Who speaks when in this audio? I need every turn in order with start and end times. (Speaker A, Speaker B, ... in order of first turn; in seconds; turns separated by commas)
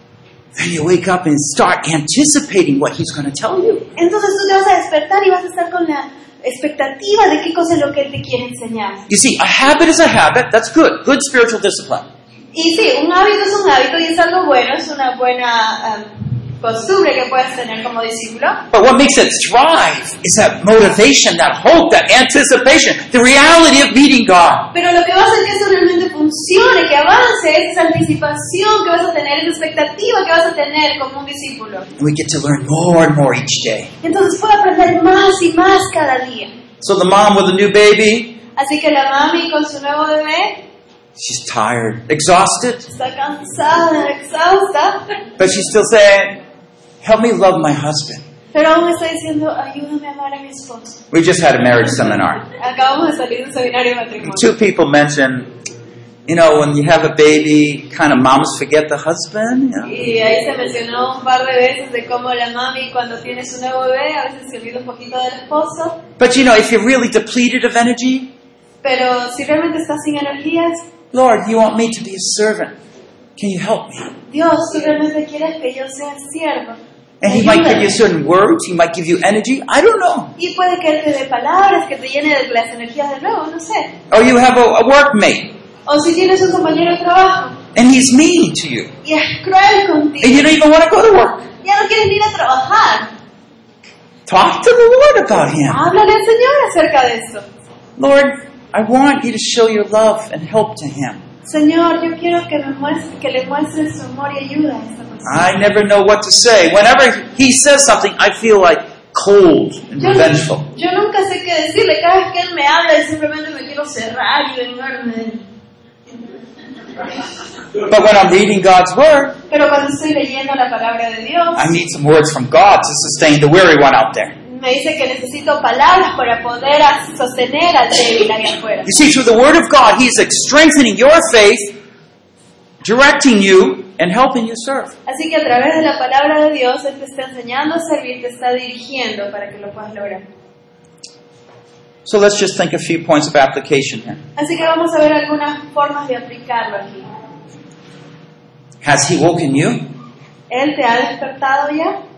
Speaker A: 0.6-3.9, Speaker B: 4.0-9.0, Speaker A: 9.1-12.1, Speaker B: 12.5-18.6, Speaker A: 18.7-24.7, Speaker B: 24.7-31.9, Speaker A: 32.0-33.9, Speaker B: 34.0-36.5, Speaker A: 36.8-38.4, Speaker B: 38.5-40.6, Speaker A: 41.1-42.9, Speaker B: 42.9-45.2, Speaker A: 45.4-46.4, Speaker A: 47.0-48.2, Speaker B: 48.5-51.0, Speaker A: 51.1-52.4, Speaker B: 52.5-54.5, Speaker A: 54.2-55.5, Speaker A: 56.3-59.9, Speaker B: 59.8-66.0, Speaker A: 66.2-68.3, Speaker B: 68.8-70.9, Speaker A: 71.1-72.7, Speaker A: 73.4-74.1, Speaker B: 74.3-78.0, Speaker A: 77.2-80.3, Speaker B: 80.4-84.0, Speaker A: 84.1-85.5, Speaker B: 85.8-87.6, Speaker A: 87.7-88.9, Speaker B: 89.0-90.5, Speaker A: 90.2-91.5, Speaker B: 91.6-93.1, Speaker A: 94.3-95.8, Speaker B: 95.7-97.4, Speaker A: 98.0-101.2, Speaker B: 101.5-105.5, Speaker A: 105.2-110.7, Speaker B: 110.0-115.4, Speaker A: 117.8-119.4, Speaker B: 119.5-121.7, Speaker A: 121.5-124.3, Speaker B: 124.4-128.9, Speaker A: 128.8-131.8, Speaker A: 132.8-134.9, Speaker B: 135.1-140.2, Speaker A: 142.0-144.2, Speaker B: 144.3-147.1, Speaker A: 148.8-149.9, Speaker B: 150.5-152.0